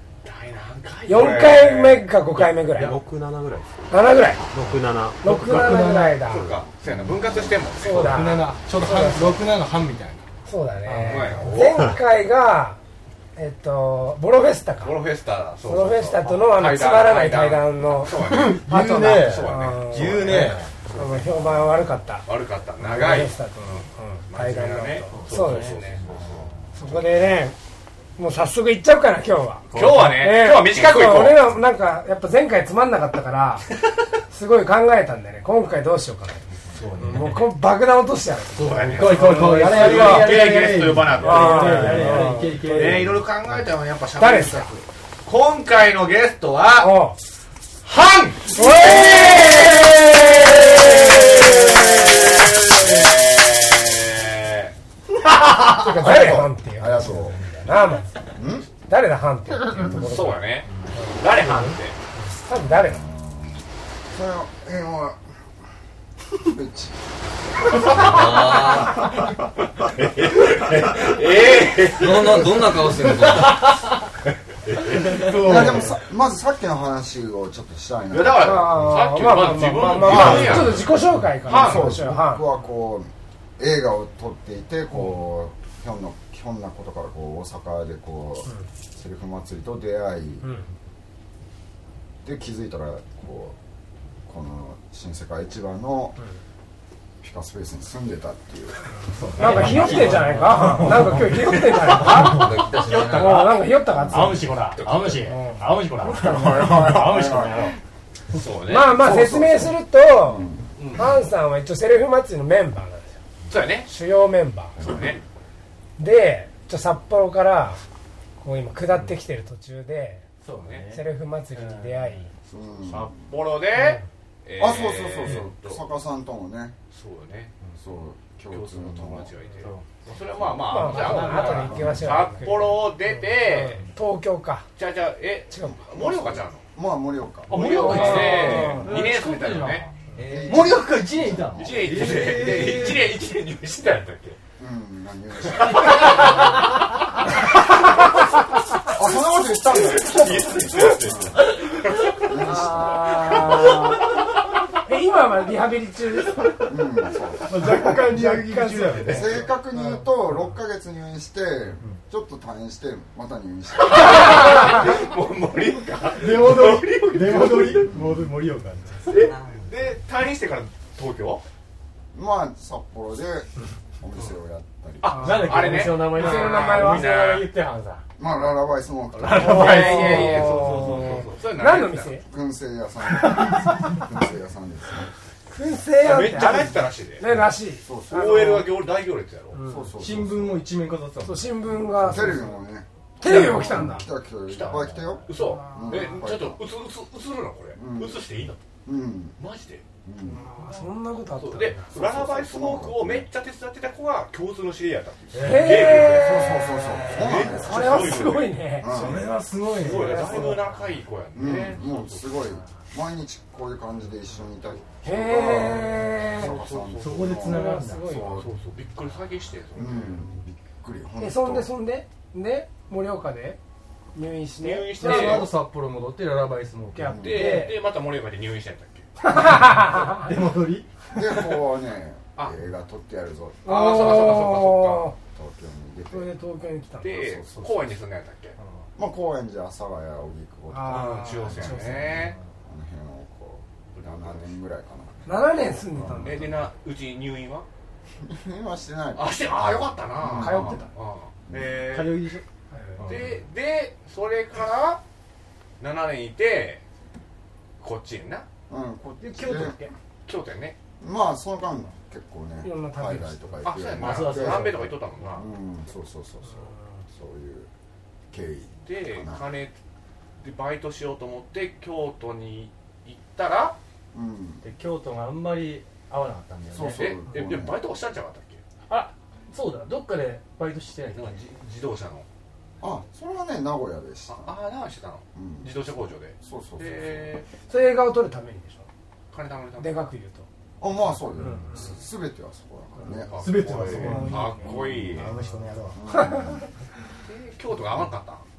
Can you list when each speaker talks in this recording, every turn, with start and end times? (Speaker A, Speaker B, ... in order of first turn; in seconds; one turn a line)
Speaker A: 0.2-2.1
Speaker B: 1.1-3.0
Speaker C: 2.7-3.0
Speaker D: 2.8-3.9
Speaker B: 3.9-4.5
Speaker D: 4.5-5.6
Speaker C: 4.6-6.3
Speaker B: 5.2-6.5
Speaker D: 6.2-6.6
Speaker A: 6.2-8.4
Speaker B: 7.8-9.5
Speaker C: 7.9-10.3
Speaker B: 10.4-12.8
Speaker C: 10.8-11.8
Speaker A: 11.0-12.0
Speaker B: 13.4-15.1
Speaker A: 14.8-18.6
Speaker B: 15.6-22.3
Speaker C: 16.2-16.6
Speaker C: 18.1-20.7
Speaker A: 19.2-21.7
Speaker A: 22.3-26.5
Speaker B: 22.8-26.0
Speaker C: 25.1-25.8
Speaker B: 26.7-27.6
Speaker B: 28.2-33.7
Speaker C: 29.7-30.1
Speaker A: 29.7-31.6
Speaker B: 34.3-40.5
Speaker C: 36.7-37.5
Speaker A: 38.5-46.9
Speaker C: 38.7-43.3
Speaker B: 41.2-43.0
Speaker B: 44.2-44.7
Speaker B: 46.8-47.2
Speaker A: 47.8-54.7
Speaker B: 48.5-52.2
Speaker A: 55.5-56.5
Speaker B: 55.7-58.2
Speaker E: 56.8-57.4
Speaker E: 58.4-58.7
Speaker B: 58.9-61.2
Speaker A: 59.8-62.0
Speaker B: 62.4-63.0
Speaker E: 62.5-65.2
Speaker E: 66.4-67.0
Speaker A: 67.8-73.0
Speaker F: 67.9-69.2
Speaker F: 71.9-73.8
Speaker A: 74.7-75.6
Speaker C: 74.8-76.0
Speaker E: 75.4-78.8
Speaker A: 78.1-81.9
Speaker B: 78.3-82.4
Speaker C: 79.7-81.8
Speaker E: 81.4-90.5
Speaker E: 92.2-93.6
Speaker E: 94.2-96.2
Speaker E: 97.2-98.8
Speaker C: 99.1-107.8
Speaker B: 99.3-104.5
Speaker F: 99.4-100.2
Speaker F: 102.0-103.7
Speaker E: 103.9-104.5
Speaker A: 104.7-105.3
Speaker B: 105.2-105.7
Speaker E: 106.0-107.8
Speaker A: 108.3-109.2
Speaker B: 108.7-113.2
Speaker E: 108.9-110.7
Speaker A: 110.8-111.0
Speaker A: 113.5-113.9
Speaker B: 113.9-114.8
Speaker A: 114.8-115.2
Speaker B: 116.0-117.8
Speaker B: 118.4-120.3
Speaker C: 120.4-122.1
Speaker A: 120.5-120.8
Speaker B: 120.9-122.3
Speaker E: 122.5-123.3
Speaker A: 122.8-125.8
Speaker B: 123.7-124.0
Speaker E: 124.6-126.8
Speaker A: 126.9-127.5
Speaker E: 127.7-129.3
Speaker A: 128.5-133.8
Speaker C: 129.6-129.9
Speaker C: 130.6-132.5
Speaker B: 130.6-134.7
Speaker E: 131.7-132.2
Speaker A: 134.8-136.6
Speaker B: 135.5-135.9
Speaker E: 135.8-138.2
Speaker A: 137.5-139.9
Speaker C: 137.5-143.2
Speaker B: 137.8-138.9
Speaker F: 140.2-140.8
Speaker E: 140.2-142.0
Speaker A: 141.5-144.4
Speaker E: 144.6-146.4
Speaker A: 145.5-146.4
Speaker E: 148.9-154.0
Speaker A: 149.7-152.3
Speaker B: 152.3-154.2
Speaker A: 153.2-153.8
Speaker B: 154.8-156.8
Speaker E: 156.6-158.0
Speaker C: 157.4-159.5
Speaker B: 157.6-160.1
Speaker E: 159.0-164.8
Speaker A: 163.8-168.0
Speaker C: 166.2-169.2
Speaker A: 169.1-171.4
Speaker E: 172.1-175.6
Speaker A: 175.0-177.5
Speaker B: 175.1-177.1
Speaker C: 175.1-178.0
Speaker E: 178.2-180.1
Speaker A: 179.2-182.1
Speaker C: 179.2-181.2
Speaker B: 179.3-182.2
Speaker E: 182.2-185.1
Speaker B: 185.5-188.6
Speaker A: 186.0-187.3
Speaker E: 187.3-188.7
Speaker A: 188.1-189.6
Speaker B: 189.5-189.9
Speaker E: 189.6-190.7
Speaker C: 190.0-192.5
Speaker B: 191.2-192.5
Speaker E: 192.0-196.6
Speaker B: 193.2-194.1
Speaker A: 194.5-198.6
Speaker B: 195.3-196.2
Speaker E: 197.8-198.2
Speaker E: 198.8-199.4
Speaker A: 199.4-199.8
Speaker E: 200.0-200.5
Speaker B: 200.2-201.9
Speaker A: 201.4-209.0
Speaker E: 201.9-203.3
Speaker C: 205.3-206.2
Speaker B: 205.4-206.8
Speaker E: 205.9-209.3
Speaker C: 206.9-208.0
Speaker B: 207.5-208.9
Speaker C: 208.8-210.8
Speaker A: 209.6-212.4
Speaker B: 209.8-210.6
Speaker E: 211.3-218.5
Speaker B: 215.0-216.5
Speaker A: 216.2-217.5
Speaker C: 217.0-218.1
Speaker B: 217.4-218.4
Speaker A: 218.4-220.3
Speaker E: 219.8-221.7
Speaker B: 221.2-223.6
Speaker B: 224.1-225.5
Speaker A: 224.6-225.5
Speaker C: 225.0-227.7
Speaker B: 226.9-227.8
Speaker E: 227.0-227.6
Speaker A: 227.2-229.1
Speaker B: 229.2-230.3
Speaker C: 229.3-231.4
Speaker E: 231.1-234.4
Speaker B: 233.6-235.1
Speaker A: 233.6-235.1
Speaker E: 235.3-236.3
Speaker B: 236.1-237.4
Speaker A: 237.0-238.6
Speaker E: 237.0-237.9
Speaker E: 238.9-246.7
Speaker B: 240.7-242.2
Speaker A: 240.9-242.3
Speaker A: 243.9-244.5
Speaker B: 245.2-246.5
Speaker A: 246.1-247.7
Speaker E: 248.2-250.8
Speaker A: 249.2-252.4
Speaker C: 250.3-250.9
Speaker B: 250.4-250.8
Speaker E: 251.5-251.8
Speaker C: 251.8-252.4
Speaker B: 252.7-253.1
Speaker C: 253.0-253.4
Speaker A: 253.1-255.0
Speaker A: 255.8-256.8
Speaker A: 257.8-258.5
Speaker E: 258.7-259.9
Speaker C: 259.2-259.9
Speaker A: 260.2-260.8
Speaker E: 261.0-267.7
Speaker B: 262.6-263.7
Speaker A: 263.6-265.5
Speaker C: 263.9-265.4
Speaker B: 266.4-266.9
Speaker E: 268.3-269.4
Speaker A: 268.9-269.8
Speaker A: 270.4-273.8
Speaker E: 274.1-274.6
Speaker C: 274.6-277.1
Speaker E: 276.7-277.8
Speaker A: 276.9-278.6
Speaker C: 278.9-281.4
Speaker A: 281.1-282.2
Speaker E: 282.8-284.6
Speaker A: 284.3-287.5
Speaker E: 285.4-285.8
Speaker E: 286.4-287.4
Speaker B: 287.7-288.9
Speaker A: 289.3-290.0
Speaker B: 289.8-290.5
Speaker E: 290.8-296.7
Speaker B: 291.4-291.9
Speaker A: 293.0-295.4
Speaker C: 293.3-296.0
Speaker B: 293.9-294.8
Speaker B: 296.1-296.6
Speaker A: 297.2-298.5